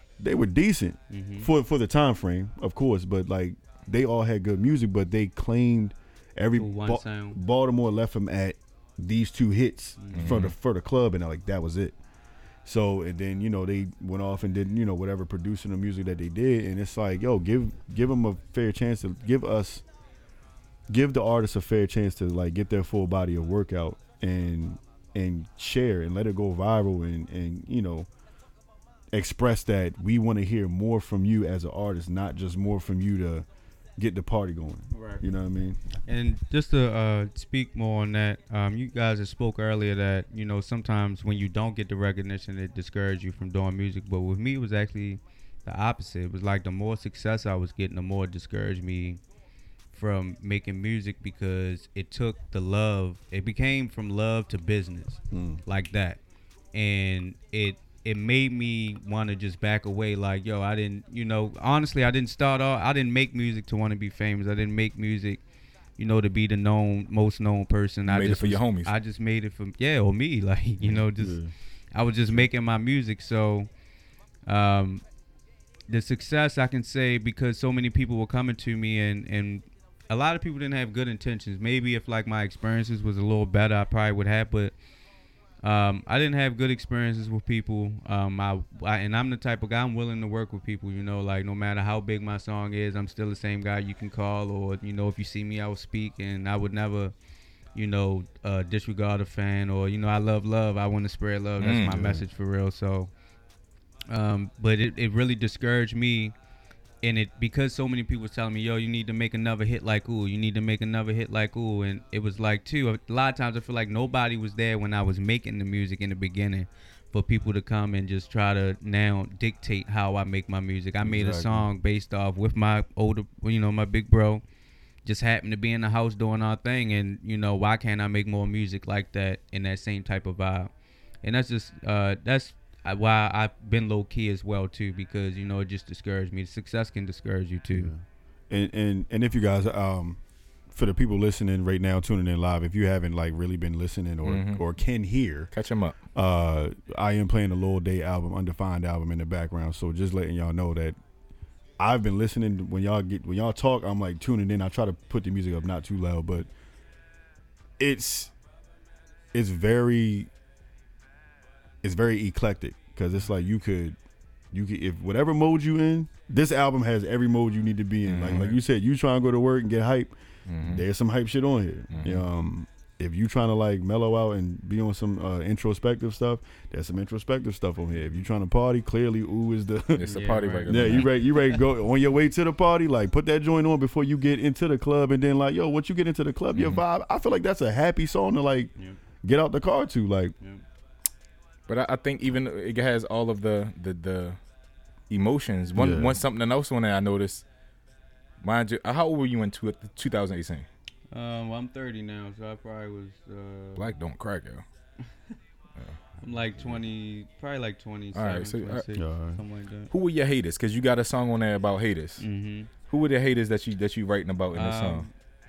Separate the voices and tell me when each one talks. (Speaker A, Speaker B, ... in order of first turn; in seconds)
Speaker A: 0.2-12.0, 12.7-19.8, 20.9-28.1, 29.1-33.5, 34.0-35.8, 55.3-55.6, 71.2-71.5, 101.9-102.2, 121.0-121.7, 137.7-145.5, 146.2-151.0, 151.8-156.5, 157.8-158.3, 159.3-160.3, 161.8-164.0, 164.5-180.1, 180.7-190.3, 195.8-196.2, 208.9-209.4
Speaker B: 1.1-1.5, 6.5-7.4, 10.0-10.5, 34.9-35.2, 36.1-49.2, 49.9-56.2, 56.7-65.4, 66.0-71.4, 71.9-73.7, 74.5-75.0, 75.9-84.8, 85.6-97.1, 97.8-103.1, 104.1-106.3, 107.0-124.4, 125.0-137.9, 180.0-181.4, 201.1-203.9, 206.2-209.9, 212.2-212.7, 214.5-215.1
Speaker C: 10.1-10.6, 68.1-68.9, 101.6-102.2, 144.2-144.6, 145.5-146.0, 168.0-168.6, 170.5-170.8, 171.9-172.2, 180.0-181.2, 186.6-186.8, 191.7-194.4, 195.1-197.4, 198.4-200.7, 203.8-204.7, 205.8-206.8, 208.1-208.9, 209.9-212.3, 212.9-215.1